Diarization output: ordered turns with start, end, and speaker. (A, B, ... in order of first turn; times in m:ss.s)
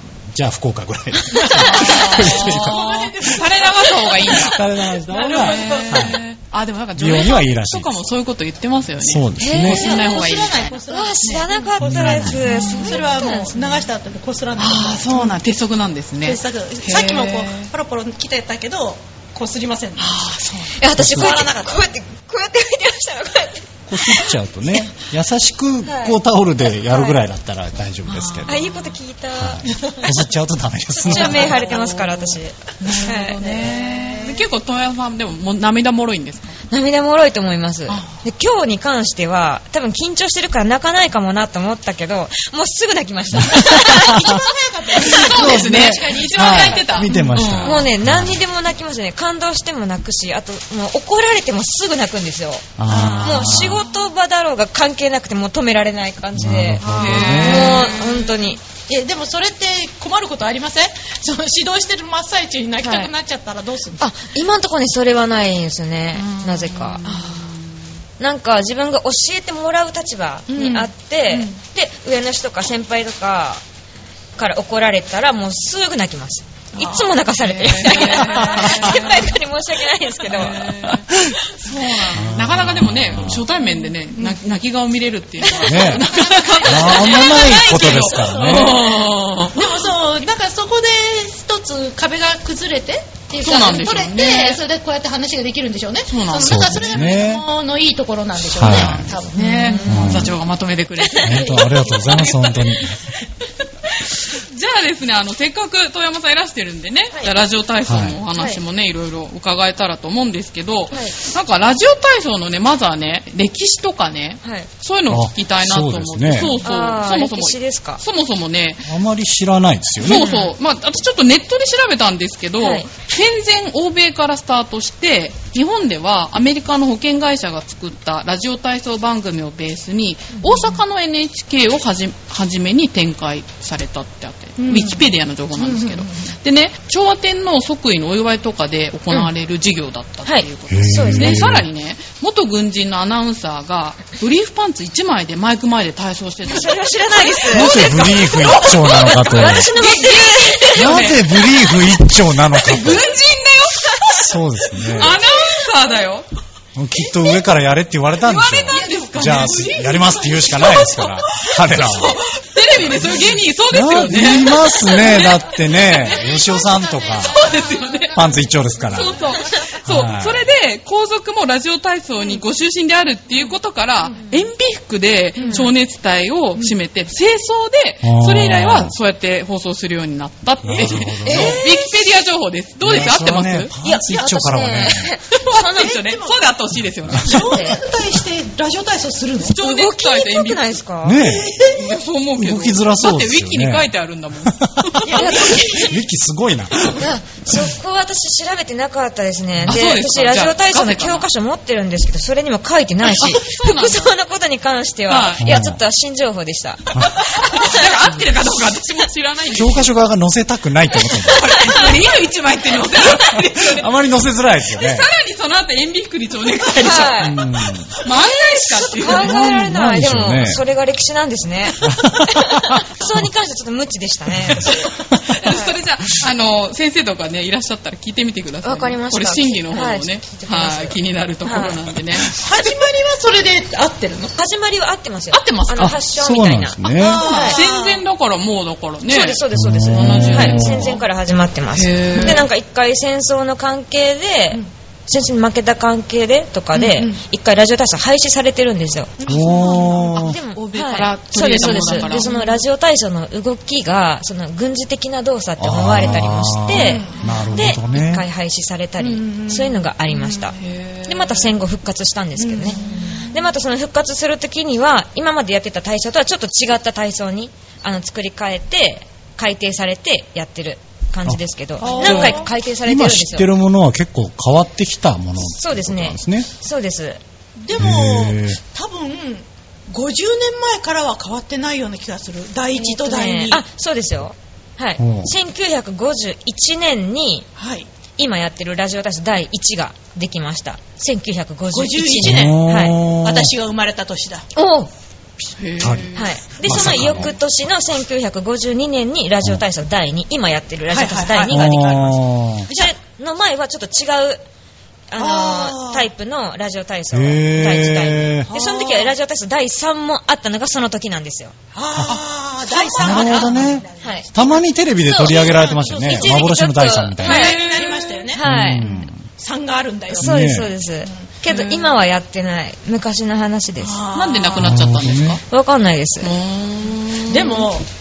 0:00.2-0:03.4 A
0:01.3-0:06.2 B
0:01.4-0:11.6 C
0:04.2-0:06.2 A
0:07.0-0:08.0 A
0:09.0-0:10.1 A
0:09.4-0:09.9 D
0:09.6-0:15.4 B
0:10.9-0:13.6 D
0:11.8-0:12.7 A
0:12.3-0:13.2 C
0:14.6-0:17.7 C
0:16.2-0:20.3 B
0:20.0-0:20.8 C
0:20.8-0:24.3 D
0:20.9-0:21.8 B
0:20.9-0:21.5 A
0:23.9-0:28.7 A
0:25.9-0:26.1 D
0:26.9-0:27.2 D
0:28.0-0:28.9 C
0:28.5-0:30.1 D
0:29.3-0:31.6 A
0:31.0-0:34.3 D
0:31.0-0:36.6 C
0:33.6-0:34.2 B
0:36.7-0:44.3 D
0:37.9-0:38.2 C
0:43.3-0:44.4 A
0:43.7-0:47.5 B
0:45.0-0:47.9 C
0:45.0-0:48.4 A
0:47.6-0:52.7 D
0:52.8-0:53.8 A
0:52.9-0:53.7 B
0:53.2-0:58.6 D
0:56.4-0:57.8 A
0:56.8-0:58.3 C
0:56.8-0:57.9 B
0:58.9-1:04.0 B
1:02.8-1:03.1 D
1:04.0-1:07.0 D
1:06.7-1:07.6 C
1:07.0-1:07.4 B
1:08.2-1:13.6 D
1:10.5-1:11.5 B
1:14.4-1:20.7 D
1:16.8-1:17.1 B
1:17.4-1:19.4 C
1:17.9-1:18.9 B
1:18.5-1:18.8 A
1:20.2-1:29.9 C
1:20.9-1:21.4 A
1:22.1-1:23.5 A
1:25.4-1:39.8 B
1:25.6-1:28.9 A
1:33.4-1:34.6 C
1:36.1-1:37.2 C
1:36.4-1:37.4 A
1:38.4-1:39.1 A
1:38.5-1:42.9 C
1:39.4-1:40.3 D
1:39.8-1:40.3 A
1:41.2-1:43.0 A
1:44.0-1:58.9 C
1:47.8-1:48.2 A
1:48.4-1:48.6 D
1:55.1-1:56.6 A
1:56.6-1:58.0 D
1:58.8-2:00.3 A
2:00.0-2:31.9 C
2:00.1-2:00.5 D
2:02.6-2:02.9 D
2:14.6-2:16.3 B
2:20.2-2:21.5 D
2:20.7-2:21.7 A
2:26.5-2:27.8 D
2:27.5-2:29.7 A
2:29.3-2:31.0 D
2:30.7-2:33.0 A
2:32.5-2:36.2 C
2:34.1-2:35.2 A
2:36.7-2:42.2 A
2:38.2-2:46.2 C
2:38.7-2:40.3 B
2:42.8-2:43.1 A
2:43.7-2:47.6 A
2:45.8-2:49.7 B
2:47.3-2:48.1 C
2:48.1-2:49.2 A
2:48.8-3:03.7 C
2:49.8-2:50.4 A
2:55.4-2:55.7 D
2:58.0-2:58.9 A
3:00.6-3:01.6 A
3:00.6-3:01.7 B
3:01.2-3:01.7 D
3:02.8-3:05.1 A
3:03.8-3:05.9 D
3:05.3-3:07.5 C
3:05.6-3:06.4 B
3:07.2-3:09.6 B
3:07.3-3:07.8 D
3:09.4-3:10.8 C
3:09.5-3:11.2 D
3:11.0-3:11.6 A
3:11.2-3:12.0 B
3:11.6-3:15.5 C
3:12.4-3:13.9 A
3:14.6-3:17.6 A
3:15.0-3:16.0 B
3:15.1-3:15.9 D
3:17.0-3:27.8 D
3:19.6-3:21.2 C
3:23.2-3:24.1 C
3:25.1-3:25.5 C
3:25.4-3:25.8 A
3:27.0-3:29.9 C
3:29.5-3:31.8 A
3:31.1-3:33.9 C
3:33.1-3:35.1 A
3:34.7-3:37.4 C
3:36.8-3:37.4 D
3:37.2-3:37.9 A
3:38.0-3:39.6 C
3:39.0-3:45.7 D
3:39.1-3:40.6 A
3:41.8-3:43.2 A
3:44.4-3:45.2 A
3:44.6-3:52.4 C
3:48.6-3:51.8 D
3:52.3-3:54.4 B
3:54.4-3:57.7 D
3:55.3-3:56.0 C
3:55.7-3:57.2 A
3:56.9-3:58.0 B
3:57.0-4:01.0 C
3:59.0-4:09.2 D
3:59.5-4:00.9 A
4:01.7-4:02.4 C
4:02.1-4:02.4 B
4:06.7-4:07.2 B
4:09.2-4:10.2 B
4:09.2-4:10.4 A
4:09.5-4:12.4 C
4:10.1-4:33.5 D
4:11.7-4:12.6 B
4:15.6-4:18.2 A
4:16.7-4:17.4 B
4:19.0-4:20.5 B
4:20.6-4:21.5 C
4:22.4-4:23.3 B
4:31.2-4:36.5 A
4:31.8-4:32.5 B
4:35.4-4:37.2 D
4:37.6-4:43.6 B
4:37.7-4:38.6 A
4:42.7-4:47.5 D
4:45.0-4:45.3 A
4:47.6-4:47.9 B
4:48.2-4:53.0 D
4:51.7-4:52.7 B
4:52.2-4:53.5 A
4:53.2-4:54.5 B
4:54.5-4:54.9 D
4:55.6-4:56.3 C
4:55.8-4:57.3 A
4:56.1-5:04.4 D
5:00.9-5:02.0 B
5:01.5-5:02.7 A
5:02.6-5:02.9 B
5:05.1-5:11.5 D
5:05.2-5:06.1 B
5:07.1-5:08.5 A
5:08.5-5:09.1 B
5:11.7-5:16.6 B
5:12.6-5:14.3 D
5:13.0-5:17.5 A
5:15.0-5:19.0 D
5:17.2-5:18.4 B
5:17.2-5:18.3 C
5:18.4-5:19.2 A
5:19.4-5:20.6 B
5:20.1-5:24.0 D
5:20.2-5:20.7 A
5:21.1-5:21.8 B
5:23.8-5:24.8 B
5:24.1-5:25.4 C
5:24.6-5:25.4 A
5:25.5-5:26.4 D
5:26.2-5:27.7 C
5:27.3-5:27.9 B